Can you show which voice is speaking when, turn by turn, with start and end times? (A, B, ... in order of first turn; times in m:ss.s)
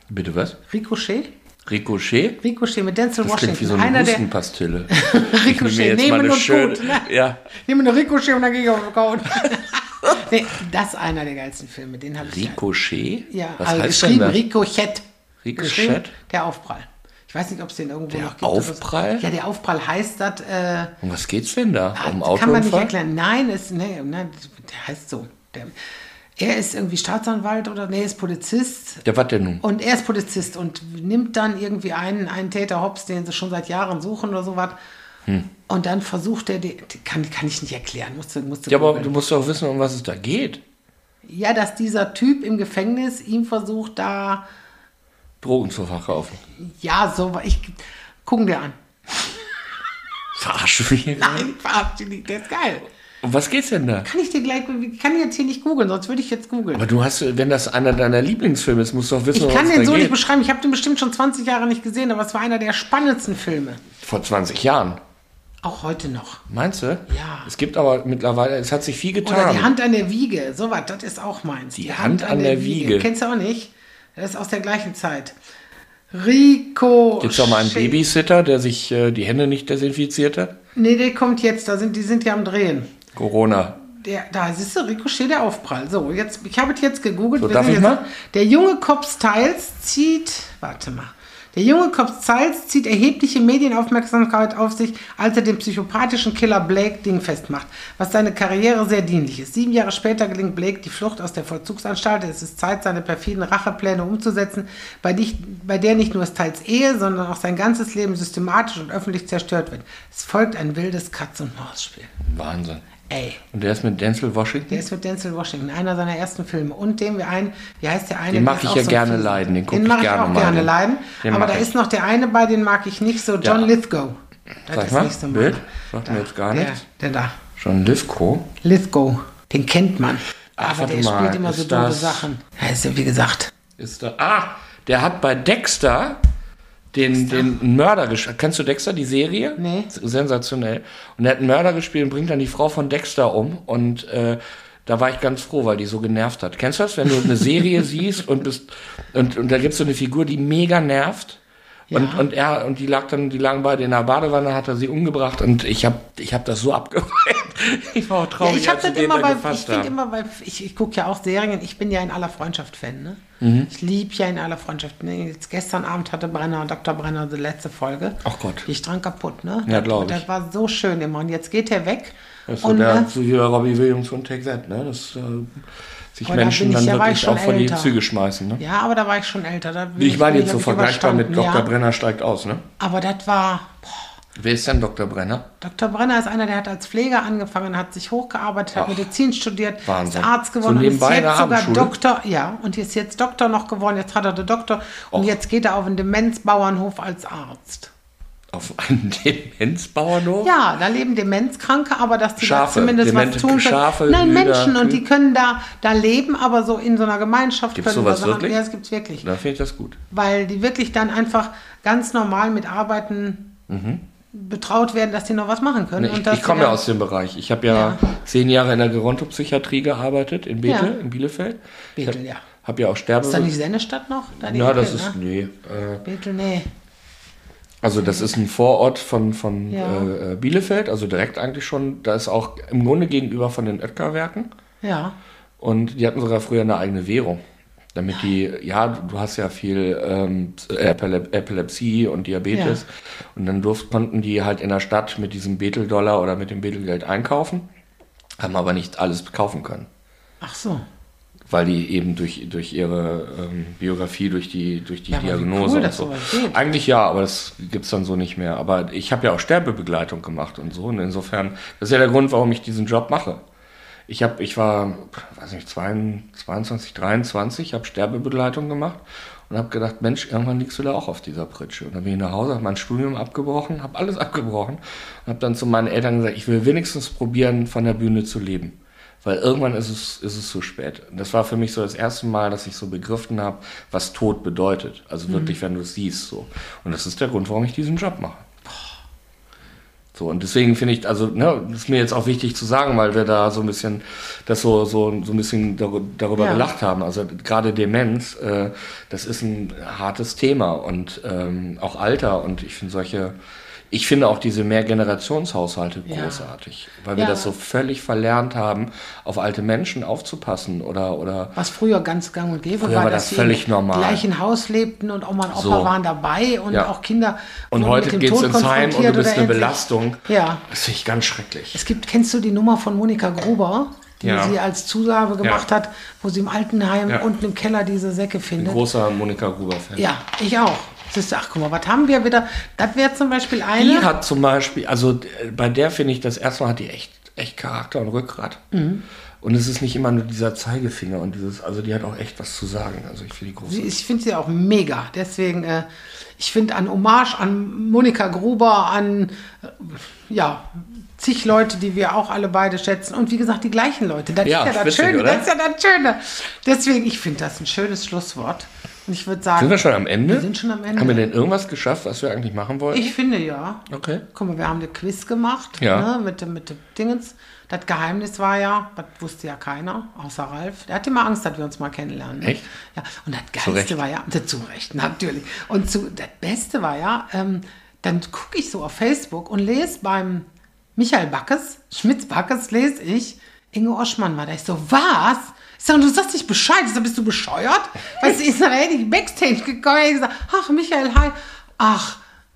0:00.1-0:00.6 A
0:00.7-0:01.3 B
0:01.7-0:02.4 A
0:02.4-0:04.2 B
0:03.2-0:07.4 A
0:04.9-0:12.6 B
0:12.2-0:14.4 A
0:13.3-0:15.0 B
0:15.4-0:16.1 A
0:15.6-0:20.9 B
0:18.1-0:19.3 A
0:21.0-0:22.9 A
0:22.0-0:25.8 B
0:26.4-0:29.0 B
0:29.0-0:29.6 A
0:29.6-0:34.8 B
0:35.7-0:39.1 B
0:38.7-0:40.6 A
0:41.2-0:44.4 B
0:45.4-0:46.4 A
0:46.6-0:48.8 B
0:50.4-0:51.5 A
0:51.2-0:52.9 B
0:53.2-0:54.1 A
0:54.0-0:56.8 B
0:56.7-1:00.2 A
0:59.3-1:03.8 B
1:04.0-1:05.0 A
1:05.6-1:06.4 B
1:06.5-1:09.7 A
1:07.1-1:07.5 B
1:09.2-1:15.4 B
1:11.8-1:13.1 A
1:16.1-1:18.0 B
1:17.2-1:20.6 A
1:20.8-1:22.9 B
1:23.1-1:23.8 A
1:23.8-1:52.1 B
1:27.4-1:28.0 A
1:52.2-1:52.9 A
1:53.1-1:53.4 B
1:53.5-1:54.8 A
1:54.7-2:04.2 B
1:58.3-2:01.7 A
2:03.4-2:03.7 A
2:04.7-2:07.4 B
2:04.7-2:06.8 A
2:07.6-2:08.5 A
2:08.6-2:13.5 B
2:10.6-2:12.3 A
2:13.8-2:16.2 A
2:16.9-2:31.4 A
2:17.1-2:17.5 B
2:19.6-2:19.9 B
2:31.9-2:32.2 B
2:31.9-2:39.9 A
2:38.4-2:53.1 B
2:43.4-2:43.7 A
2:48.2-2:48.7 A
2:49.7-2:50.2 A
2:52.5-2:58.6 A
2:56.2-2:58.0 B
2:58.6-3:01.7 B
3:00.0-3:02.6 A
3:02.8-3:04.1 B
3:04.4-3:05.5 A
3:05.6-3:17.9 B
3:08.8-3:09.1 A
3:09.8-3:11.9 A
3:18.5-3:20.5 A
3:20.4-3:29.3 B
3:22.4-3:25.0 A
3:27.8-3:28.6 A
3:29.2-3:30.0 A
3:30.1-3:33.5 B
3:33.7-3:34.0 A
3:34.3-3:36.8 B
3:36.0-3:43.5 A
3:37.7-3:38.0 B
3:40.6-3:41.0 B
3:42.0-3:42.4 B
3:43.2-3:45.2 B
3:44.4-3:46.0 A
3:46.0-3:46.7 B
3:47.8-3:54.5 A
3:49.7-3:50.1 B
3:54.8-3:55.2 B
3:55.6-3:57.4 A
3:57.9-4:07.7 A
4:02.5-4:02.8 B
4:08.4-4:09.9 A
4:10.4-4:10.8 B
4:11.5-4:23.4 A
4:15.1-4:16.6 B
4:24.1-4:48.4 A
4:45.3-4:45.6 B
4:50.1-5:03.4 A
4:56.4-4:56.7 B
5:03.9-5:11.6 A
5:06.1-5:06.5 B
5:07.2-5:07.5 B
5:11.6-5:20.6 B
5:12.8-5:14.2 A
5:15.5-5:15.9 A
5:17.7-5:21.8 A
5:21.7-5:28.8 B
5:24.2-5:24.6 A
5:28.6-5:30.1 A
5:30.0-5:34.1 B
5:33.7-5:38.6 A
5:38.7-5:39.0 B
5:39.4-5:43.9 A
5:43.7-6:01.2 B
5:54.4-5:55.5 A
5:59.6-6:03.2 A
6:02.9-6:32.2 B
6:03.9-6:04.2 A
6:05.8-6:06.1 A
6:12.4-6:12.7 A
6:13.6-6:14.0 A